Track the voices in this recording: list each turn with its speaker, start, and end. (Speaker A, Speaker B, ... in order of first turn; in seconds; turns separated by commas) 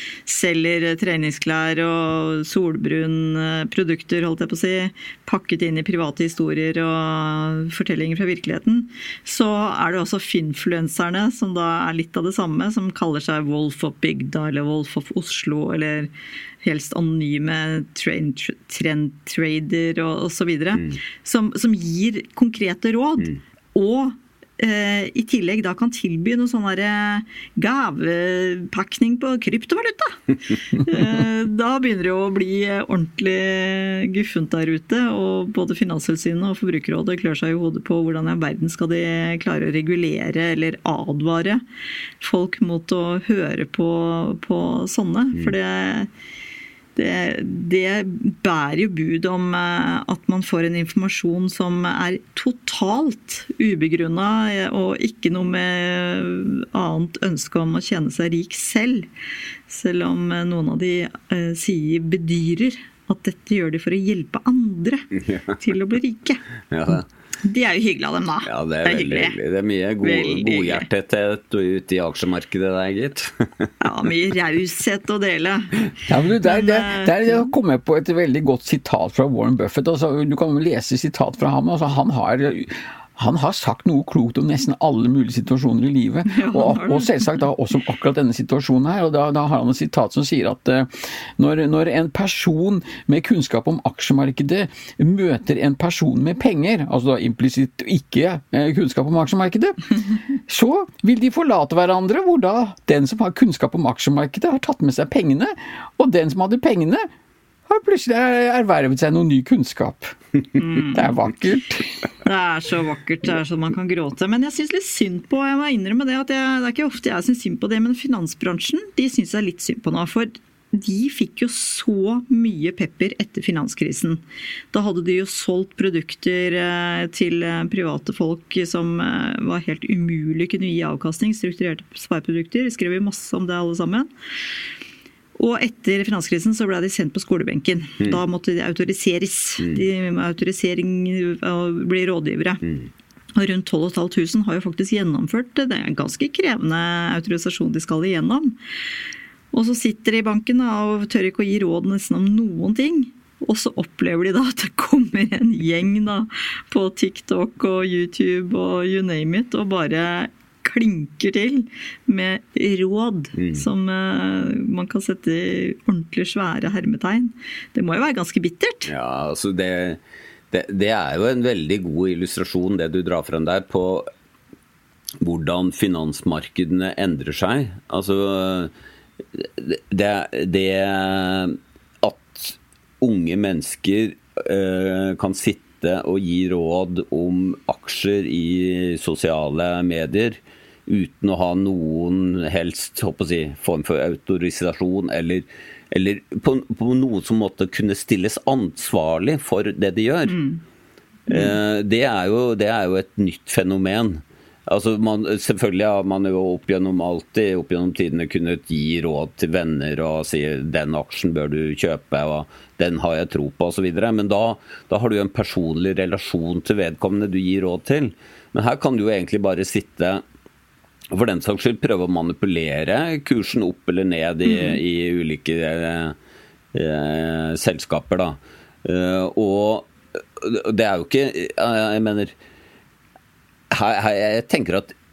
Speaker A: 0.2-16.1, Speaker A: 16.6-41.6, Speaker A: 42.2-46.1, Speaker A: 47.0-59.1, Speaker A: 59.7-65.0, Speaker A: 65.6-66.4, Speaker B: 66.7-67.0, Speaker A: 66.9-69.3, Speaker B: 68.4-73.7, Speaker A: 70.0-70.8, Speaker A: 73.8-75.8, Speaker C: 76.1-99.8, Speaker A: 76.4-77.5, Speaker A: 86.3-87.4, Speaker C: 100.5-107.1, Speaker C: 107.7-111.8, Speaker A: 110.5-111.1, Speaker A: 112.2-134.1, Speaker A: 135.4-142.6, Speaker A: 143.4-148.6, Speaker A: 149.5-168.9, Speaker B: 163.3-163.7, Speaker B: 168.9-174.1, Speaker B: 175.2-178.7, Speaker B: 179.3-200.4, Speaker A: 200.3-200.6, Speaker A: 201.3-201.6, Speaker B: 201.3-220.2, Speaker B: 221.1-226.2, Speaker A: 224.5-224.8, Speaker B: 226.7-232.3, Speaker B: 233.7-234.9